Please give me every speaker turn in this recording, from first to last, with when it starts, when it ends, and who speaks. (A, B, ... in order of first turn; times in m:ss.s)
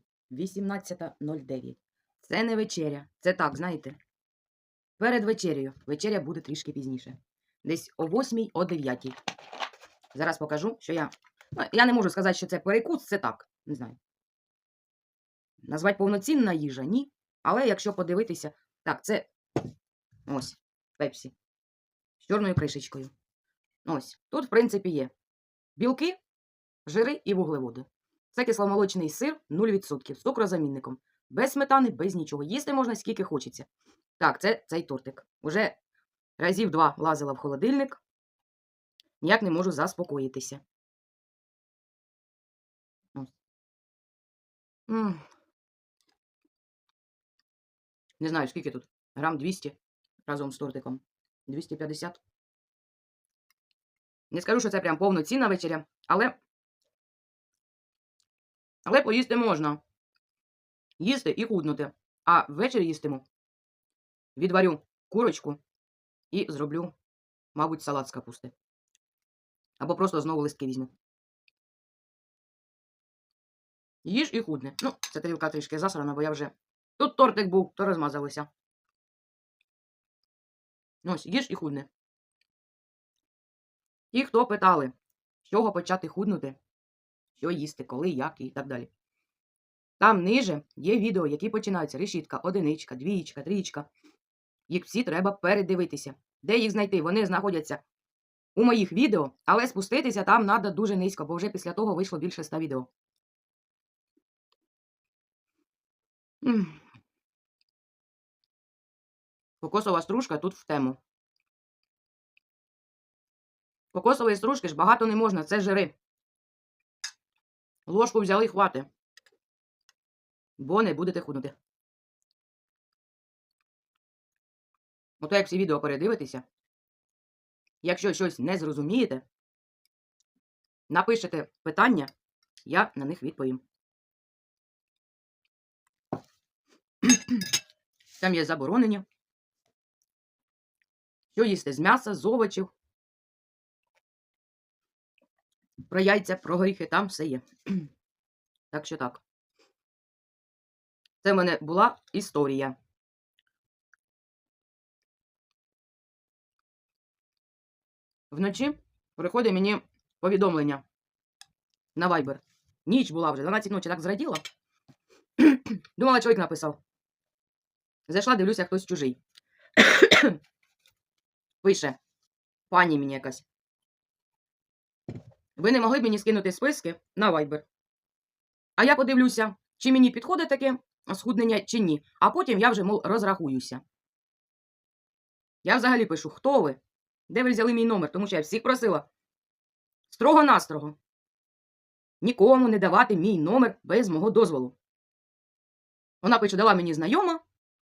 0:00.3-0:04.0 A
0:05.0-0:09.2 A
0:10.1-0:14.0 A
0:15.6-0:19.3 A
0:20.3-0:21.3 A
0:22.2-0:23.1 A
0:23.8-0:25.1 A
0:25.8-0:26.2 A
0:26.9-0:33.7 A
0:34.2-0:35.8 A
0:36.4-0:38.0 A
0:39.2-0:40.6 A
0:44.9-0:45.2 A
0:48.2-0:52.2 A
0:54.3-0:56.4 A
0:58.8-0:59.8 A
1:01.0-1:03.3 A
1:04.4-1:05.6 A
1:06.3-1:06.9 A
1:07.6-1:08.5 A
1:09.8-1:10.9 A
1:14.0-1:18.5 A
1:21.0-1:21.9 A
1:24.1-1:26.6 A
1:27.4-1:28.9 A
1:30.0-1:33.9 A
1:34.7-1:37.8 A
1:38.6-1:42.9 A
1:46.4-1:46.8 A
1:49.6-1:51.0 A
1:53.9-1:56.0 A
1:57.9-1:58.9 A
2:00.6-2:01.6 A
2:05.2-2:06.4 A
2:07.8-2:09.2 A
2:10.9-2:12.1 A
2:12.7-2:13.6 A
2:17.0-2:17.5 A
2:18.2-2:19.0 A
2:21.4-2:22.7 A
2:25.8-2:27.9 A
2:28.7-2:29.2 A
2:31.2-2:32.8 A
2:38.3-2:40.8 A
2:42.0-2:44.4 A
2:45.4-2:46.8 A
2:48.1-2:49.2 A
2:49.8-2:50.4 A
2:51.6-2:52.0 A
2:52.7-2:53.4 A
2:55.6-2:57.6 A
2:58.8-3:03.8 A
3:05.6-3:09.1 A
3:10.1-3:11.0 A
3:12.2-3:14.8 A
3:16.2-3:17.4 A